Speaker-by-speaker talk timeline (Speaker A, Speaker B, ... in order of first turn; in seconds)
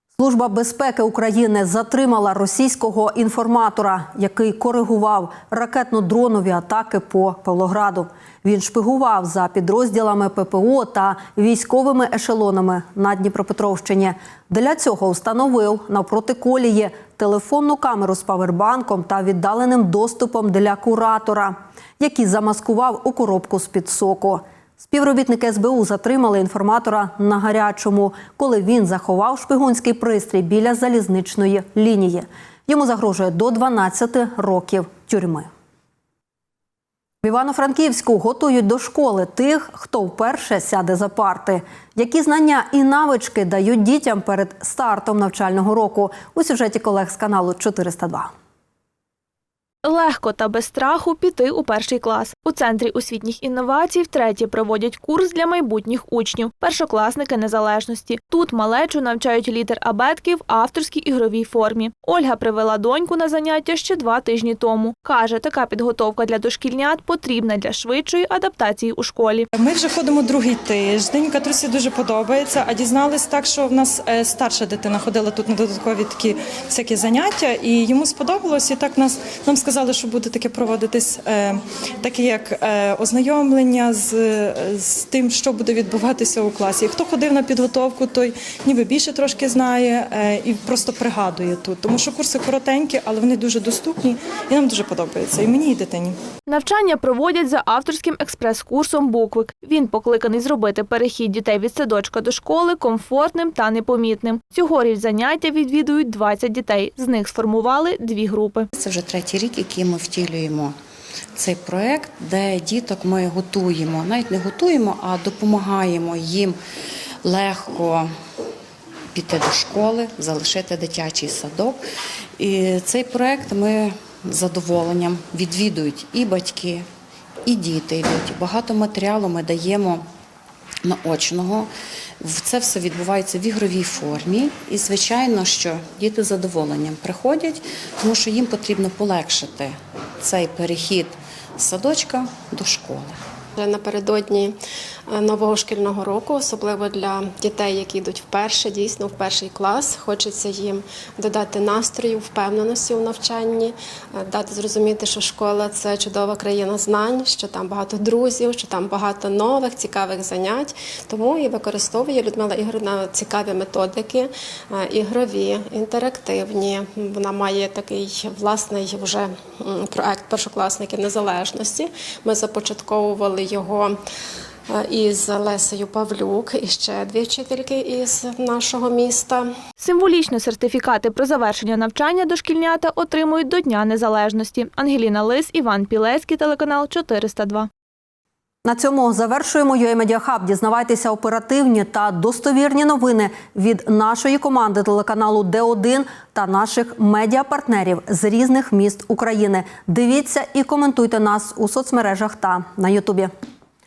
Speaker A: 0.2-35.5, 37.2-48.3, 188.6-203.3
Speaker B: 49.8-69.5, 96.5-108.7, 179.8-187.7
Speaker C: 69.5-96.2
Speaker D: 108.8-110.8, 111.3-116.6, 117.2-118.1, 119.1-121.8, 122.4-126.8, 127.4-130.1, 130.8-143.2
Speaker E: 143.6-144.6, 145.1-174.0, 174.7-179.5